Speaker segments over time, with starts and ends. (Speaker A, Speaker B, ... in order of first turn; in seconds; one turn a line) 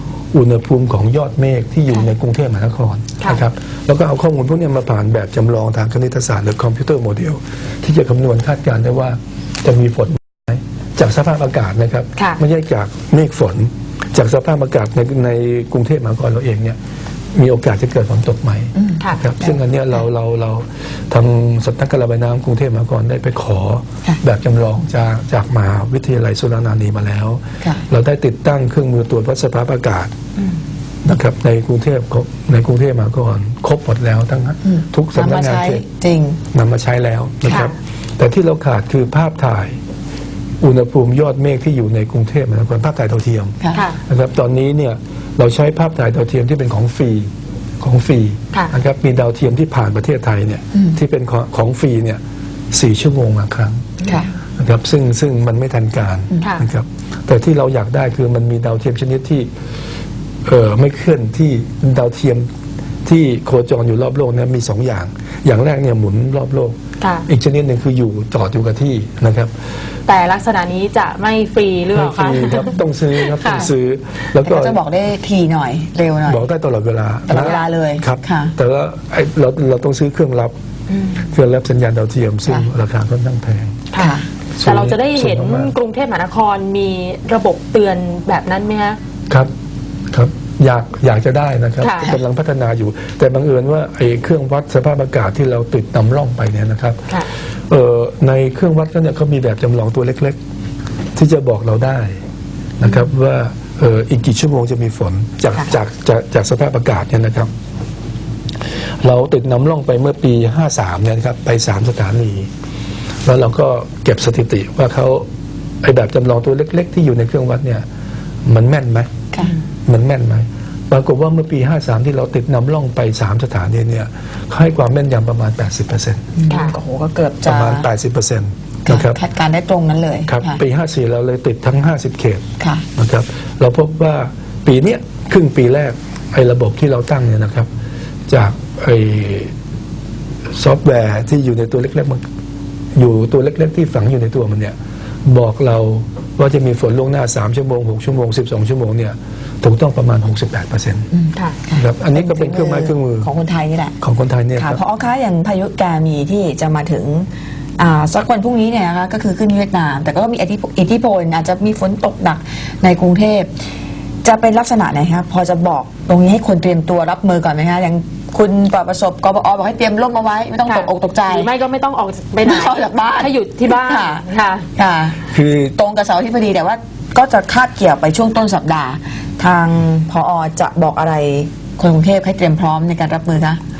Speaker A: 0.3-16.8
Speaker A: 17.3-30.1
Speaker B: 18.8-19.6
Speaker A: 31.0-35.8
Speaker B: 34.6-36.4
Speaker A: 36.5-39.8
Speaker C: 37.5-37.7
Speaker A: 40.6-52.2
Speaker B: 43.6-43.9
Speaker C: 43.7-44.0
Speaker A: 52.7-54.0
Speaker A: 54.6-59.5
Speaker A: 60.4-62.5
Speaker A: 63.0-69.5
Speaker C: 67.0-67.2
Speaker C: 70.1-73.7
Speaker A: 71.9-74.8
Speaker B: 74.4-76.5
Speaker A: 76.2-80.5
Speaker B: 77.3-78.5
Speaker C: 80.9-81.3
Speaker A: 81.2-83.9
Speaker C: 83.9-89.0
Speaker B: 84.0-84.3
Speaker A: 84.6-85.7
Speaker A: 90.1-97.1
Speaker C: 91.8-92.2
Speaker A: 97.7-100.4
Speaker A: 101.2-102.2
Speaker A: 102.8-107.5
Speaker A: 109.0-112.5
Speaker A: 113.2-115.2
Speaker A: 115.8-117.8
Speaker A: 118.4-119.1
Speaker A: 119.8-126.3
Speaker B: 126.3-127.9
Speaker C: 126.5-126.7
Speaker A: 127.4-129.2
Speaker B: 128.8-130.6
Speaker A: 130.3-137.7
Speaker B: 132.6-132.8
Speaker A: 138.3-139.5
Speaker A: 140.5-142.2
Speaker A: 142.9-151.1
Speaker B: 151.1-154.0
Speaker A: 151.7-153.3
Speaker A: 154.0-154.8
Speaker B: 154.6-163.5
Speaker B: 164.2-171.5
Speaker C: 170.7-174.7
Speaker B: 172.4-183.6
Speaker A: 175.3-175.7